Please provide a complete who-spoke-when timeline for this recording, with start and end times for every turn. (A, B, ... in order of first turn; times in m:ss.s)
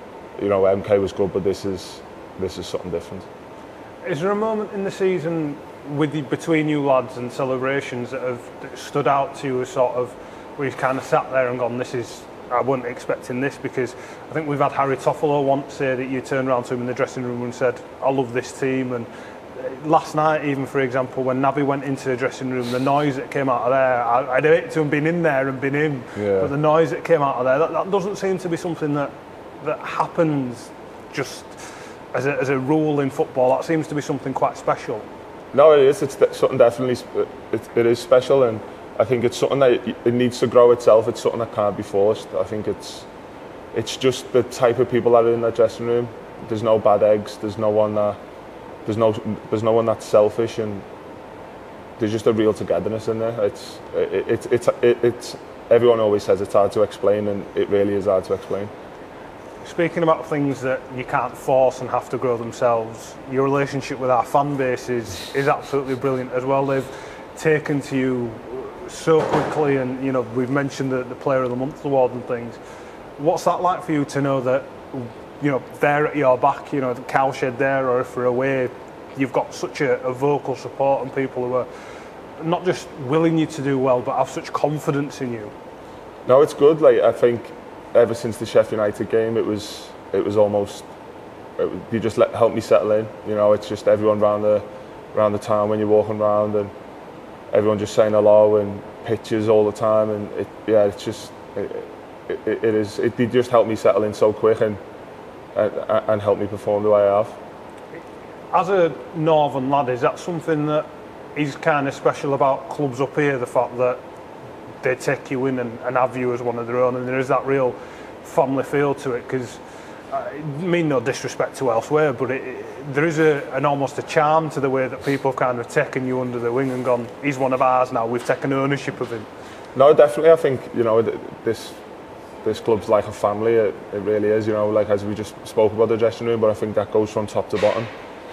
0:00.4-0:03.3 A
0:04.0-0:35.0 B
0:26.2-0:26.5 A
0:35.5-0:43.1 A
0:43.7-0:48.2 A
0:48.9-0:50.8 A
0:52.0-0:58.7 A
0:59.6-1:12.6 B
1:13.2-1:21.7 B
1:22.4-1:25.5 B
1:26.3-1:30.9 A
1:31.6-1:36.7 A
1:37.5-1:44.8 A
1:45.5-1:47.4 A
1:48.5-1:54.0 B
1:54.8-2:09.3 B
2:09.8-2:11.8 A
2:12.4-2:17.9 A